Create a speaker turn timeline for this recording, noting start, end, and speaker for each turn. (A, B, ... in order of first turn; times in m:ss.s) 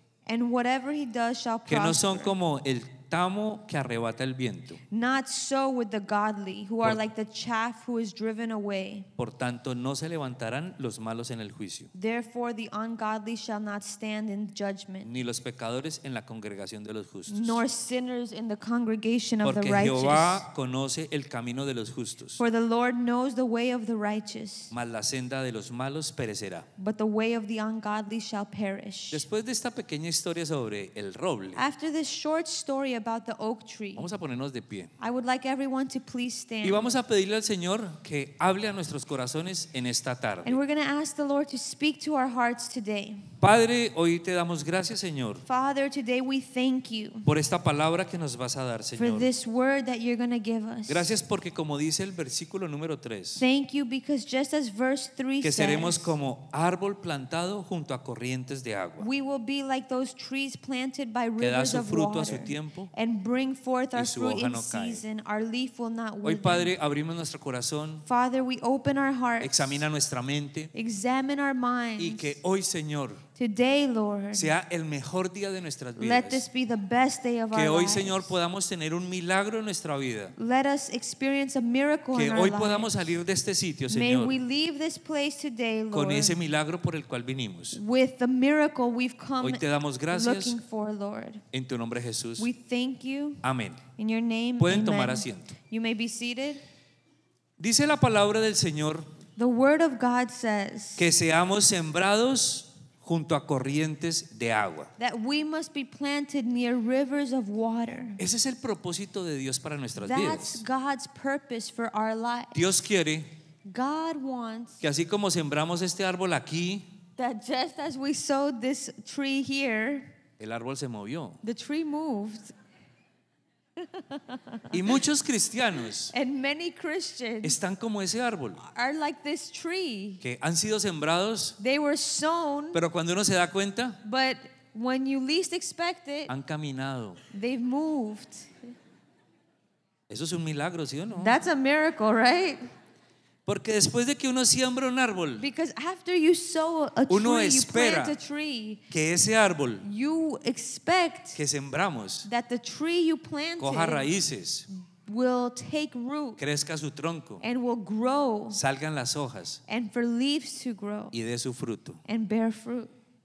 0:00.2-0:02.4 A
0:01.7-0:04.8 B
0:04.9-0:09.1 A
0:09.2-0:11.9 B
0:11.9-0:15.1 A
0:15.0-0:17.6 B
0:17.3-0:20.4 A
0:19.4-0:22.4 B
0:22.4-0:24.7 A
0:24.7-0:26.7 B
0:26.8-0:29.2 A
0:29.1-0:31.6 B
0:31.5-0:34.1 A
0:34.0-0:34.9 B
0:35.0-0:36.9 A
0:36.6-0:40.6 B
0:40.4-0:43.3 A
0:43.4-0:45.4 B
0:45.4-0:47.3 A
0:47.2-0:49.3 B
0:49.0-0:51.1 A
0:50.9-0:53.4 B
0:53.4-0:56.2 A
0:55.4-0:59.1 B
0:59.0-1:06.7 A
1:01.4-1:02.9 B
1:03.9-1:05.0 B
1:06.2-1:08.0 B
1:08.0-1:09.8 A
1:09.4-1:10.7 B
1:10.7-1:12.3 A
1:12.0-1:13.2 B
1:13.4-1:14.5 A
1:14.3-1:16.4 B
1:16.0-1:18.3 A
1:17.5-1:20.3 B
1:20.4-1:23.1 A
1:22.1-1:24.4 B
1:23.9-1:26.4 A
1:25.9-1:27.8 B
1:27.7-1:31.4 A
1:29.4-1:30.6 B
1:31.5-1:32.5 B
1:32.4-1:36.6 A
1:33.4-1:33.8 B
1:34.6-1:35.5 B
1:37.6-1:39.1 B
1:39.4-1:41.1 A
1:41.0-1:44.9 B
1:45.0-1:48.2 A
1:48.2-1:50.6 B
1:50.0-1:52.6 A
1:52.5-1:53.3 B
1:53.6-1:54.8 A
1:54.8-1:56.8 B
1:57.2-2:00.1 A
2:00.4-2:01.4 B
2:01.4-2:02.5 A
2:03.8-2:05.0 A
2:04.7-2:06.1 B
2:06.1-2:07.6 A
2:07.4-2:08.6 B
2:08.6-2:10.2 A
2:10.2-2:11.6 B
2:11.6-2:12.8 A
2:12.7-2:14.0 B
2:14.0-2:16.3 A
2:16.3-2:17.2 B
2:17.3-2:18.7 A
2:20.1-2:21.3 B
2:21.2-2:22.7 A
2:23.4-2:25.4 B
2:25.4-2:28.8 A
2:27.1-2:28.2 B
2:28.9-2:29.8 B
2:29.8-2:31.4 A
2:31.3-2:32.3 B
2:32.2-2:34.1 A
2:33.6-2:34.7 B
2:34.9-2:36.4 A
2:36.4-2:37.4 B
2:37.4-2:38.6 A
2:38.5-2:39.6 B
2:39.7-2:41.1 A
2:41.1-2:42.0 B
2:42.0-2:42.9 A